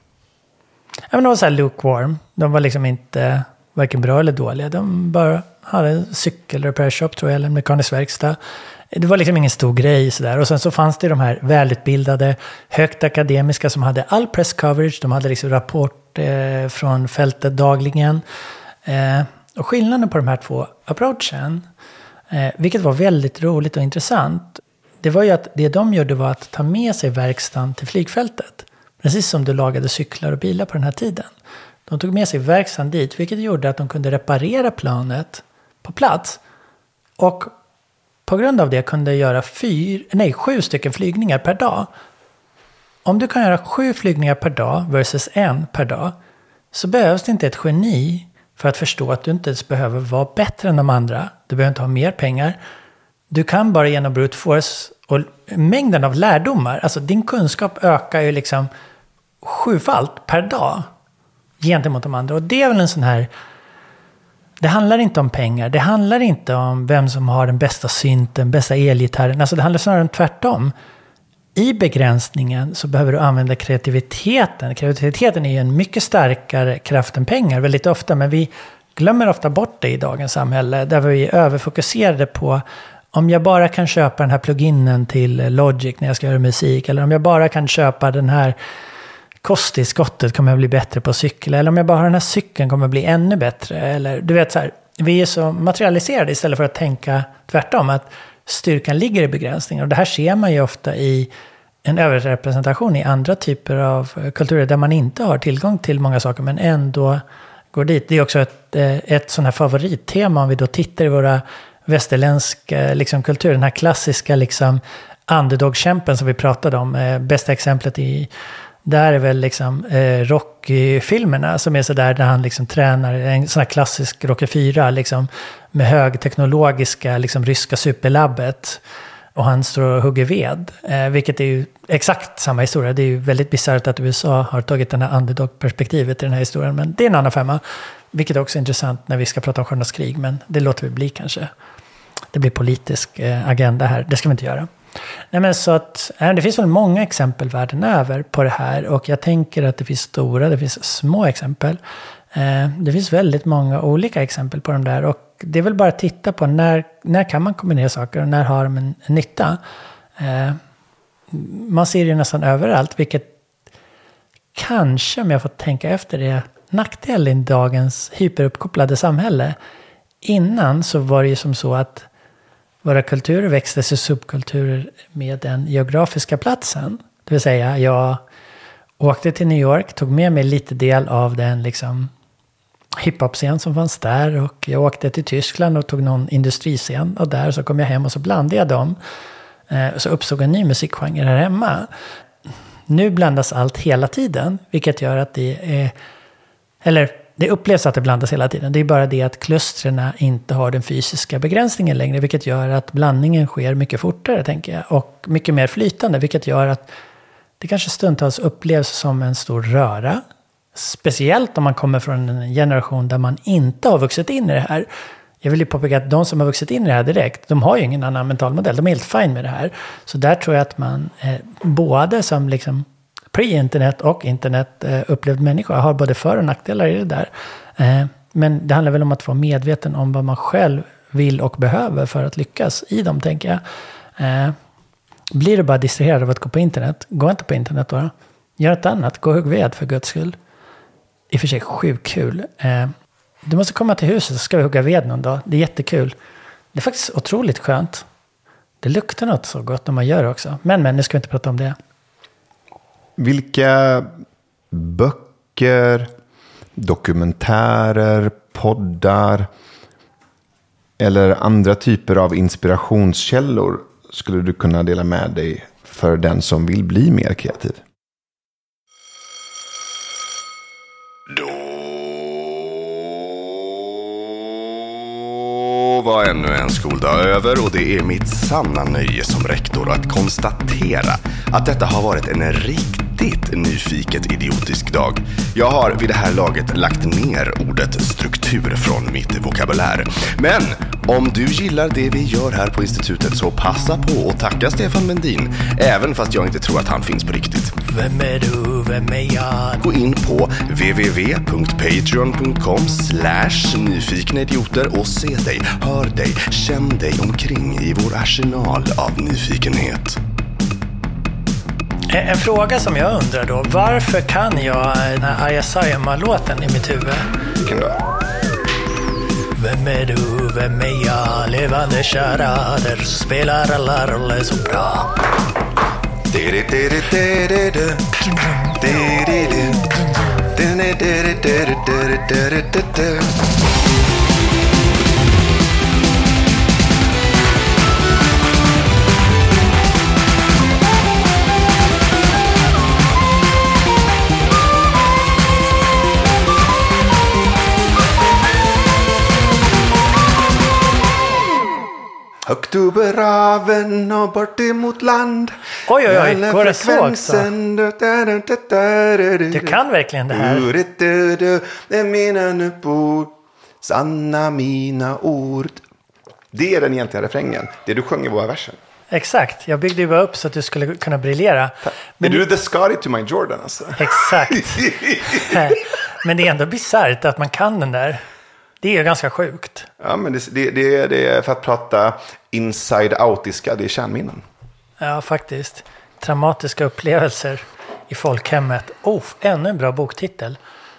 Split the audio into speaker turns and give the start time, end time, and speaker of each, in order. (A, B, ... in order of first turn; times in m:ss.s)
0:01.1-0:08.4 A
0:08.9-0:18.2 A
0:18.8-0:21.7 A
0:22.3-0:31.3 A
0:31.9-0:36.4 A
0:37.2-0:37.5 A
0:38.3-0:41.9 A
0:43.0-0:46.2 A
0:46.7-0:52.6 A
0:53.3-0:58.7 A
0:59.4-1:00.9 A
1:01.6-1:03.3 A
1:04.6-1:10.7 A
1:11.6-1:28.6 A
1:29.4-1:41.3 A
1:41.8-1:58.3 A
1:58.8-2:08.8 A
2:09.4-2:21.5 A
2:22.3-2:24.7 A
2:25.3-2:31.8 A
2:32.3-2:39.6 A
2:40.2-2:40.6 A
2:41.3-2:43.3 A
2:44.6-2:49.6 A
2:50.2-2:52.1 A
2:52.8-2:58.2 A
2:59.0-3:02.1 A
3:03.0-3:09.0 A
3:09.7-3:11.9 A
3:12.9-3:15.9 A
3:16.8-3:26.9 A
3:27.6-3:30.2 A
3:30.8-3:34.9 A
3:35.4-3:53.6 A
3:54.2-3:54.6 A
3:55.3-4:00.4 A
4:01.3-4:06.2 A
4:06.7-4:08.0 A
4:08.8-4:11.8 A
4:13.2-4:14.1 B
4:14.7-4:16.1 B
4:16.8-4:19.5 B
4:21.0-4:27.8 B
4:31.3-4:32.7 C
4:35.2-4:57.8 C
4:57.9-4:59.8 A
4:59.8-5:10.2 C
5:12.1-5:17.3 A
5:17.6-5:18.0 B
5:19.6-5:25.2 A
5:26.3-5:28.1 B
5:28.8-5:29.9 B
5:30.5-5:33.3 B
5:52.5-5:59.8 B
5:55.9-5:57.5 A
5:59.5-6:00.7 A
6:00.3-6:05.8 B
6:06.5-6:08.8 B
6:09.1-6:12.4 A
6:12.2-6:15.7 B
6:14.0-6:18.2 A
6:18.8-6:19.9 A
6:20.0-6:24.4 B
6:25.0-6:30.6 A